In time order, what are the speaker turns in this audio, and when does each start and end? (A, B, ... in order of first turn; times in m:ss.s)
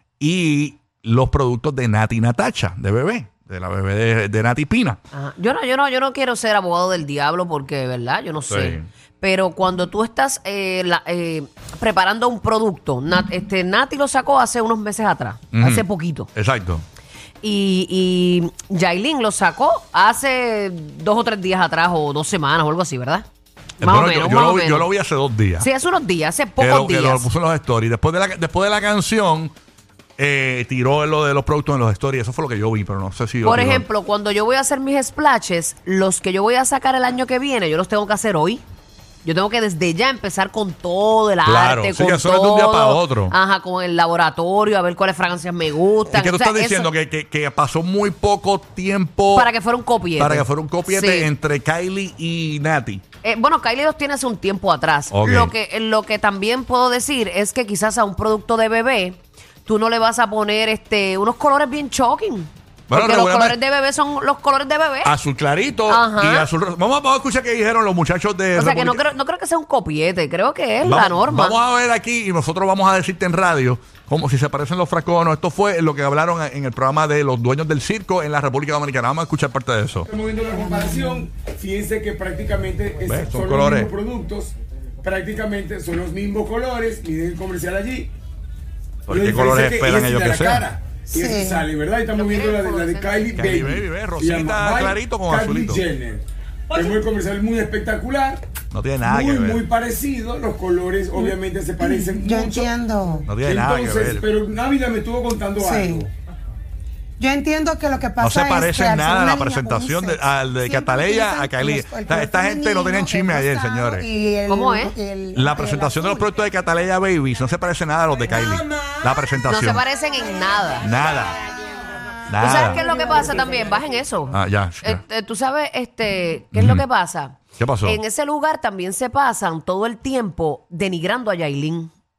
0:00.2-0:05.0 A
0:05.1-0:16.3 B
0:08.5-0:08.9 A
0:15.5-0:16.8 A
0:17.4-0:23.2 B
0:23.8-0:25.7 A
0:23.8-0:24.9 B
0:25.6-0:27.3 B
0:26.6-0:29.5 A
0:30.2-0:33.8 A
0:33.4-0:38.6 B
0:39.2-0:46.9 B
0:41.4-0:43.3 A
0:46.1-0:49.5 A
0:49.3-0:51.3 B
0:50.2-0:53.0 A
0:53.2-1:05.1 B
0:55.1-0:55.5 A
1:02.9-1:03.6 A
1:05.0-1:09.1 A
1:05.9-1:06.5 B
1:08.5-1:11.6 B
1:10.8-1:20.1 A
1:20.1-1:28.1 C
1:20.5-1:21.2 D
1:23.0-1:23.9 A
1:29.1-1:30.7 A
1:29.1-1:38.4 C
1:31.1-1:31.6 D
1:32.1-1:33.4 B
1:33.3-1:35.8 A
1:38.7-1:39.6 A
1:39.0-1:46.1 C
1:41.1-1:43.3 D
1:43.3-1:44.3 A
1:45.6-1:46.0 D
1:47.2-1:56.3 D
1:48.2-1:54.0 A
1:54.5-1:54.9 B
1:55.3-1:59.8 A
1:59.5-2:00.9 B
2:00.8-2:01.4 A
2:02.3-2:02.8 A
2:02.4-2:11.9 B
2:02.4-2:03.0 D
2:04.3-2:05.0 A
2:06.5-2:06.8 A
2:07.6-2:08.0 A